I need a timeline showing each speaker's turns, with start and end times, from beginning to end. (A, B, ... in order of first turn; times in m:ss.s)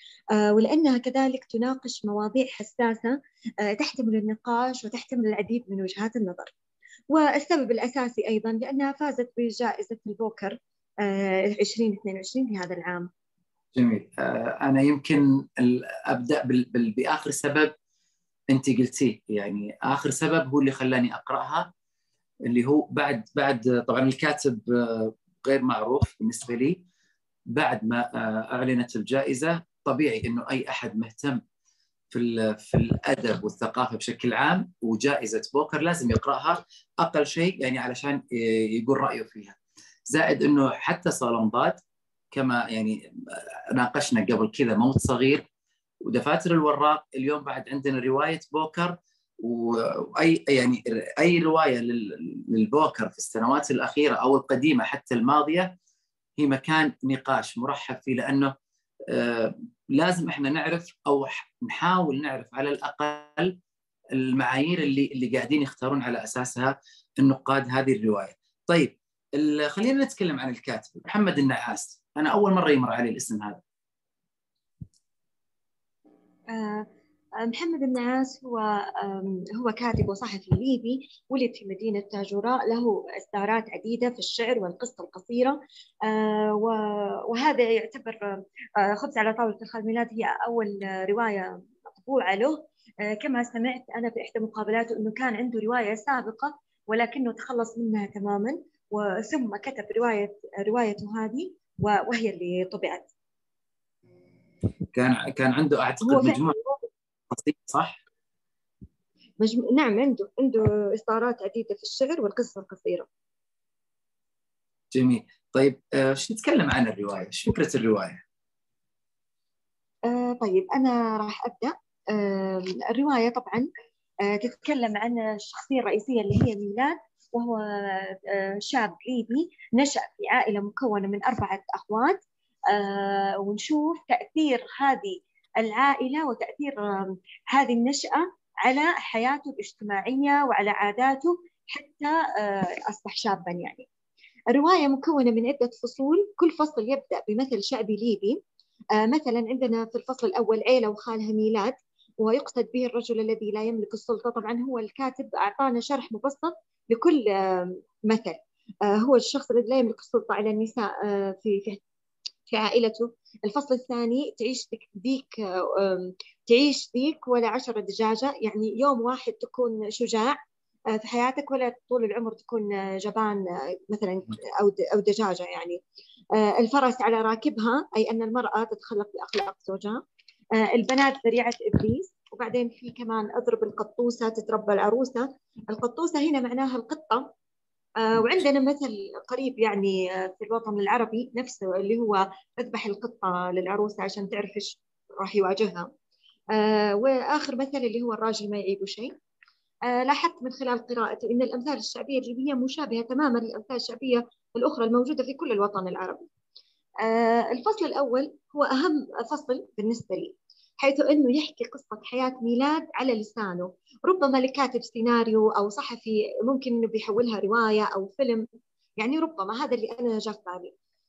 0:00.4-0:06.5 A
0:07.1-0:13.1 A
0:13.8-0:17.7 B
0:18.5-0:21.7 B
0:22.4-0:26.8 B
0:27.5-0:31.4 B
0:32.1-0:39.6 B
0:40.1-0:41.8 B
0:42.3-0:45.5 B
0:46.0-0:55.8 B
0:56.4-0:58.6 B
0:59.1-1:03.6 B
1:04.1-1:13.6 B
1:16.5-1:16.9 A
1:17.4-1:43.1 A
1:44.9-1:46.6 B
1:46.0-1:46.8 A
1:47.3-1:48.0 B
1:49.4-1:53.1 A
1:54.9-1:58.2 B
2:00.1-2:03.7 A
2:04.2-2:23.9 A
2:24.5-2:28.4 A
2:29.0-2:41.8 A
2:42.5-2:50.4 A
2:50.9-2:55.8 A
2:56.4-3:00.0 A
3:00.6-3:07.3 A
3:08.0-3:15.9 A
3:16.5-3:19.2 A
3:19.9-3:26.3 A
3:27.0-3:38.5 A
3:39.0-3:40.7 A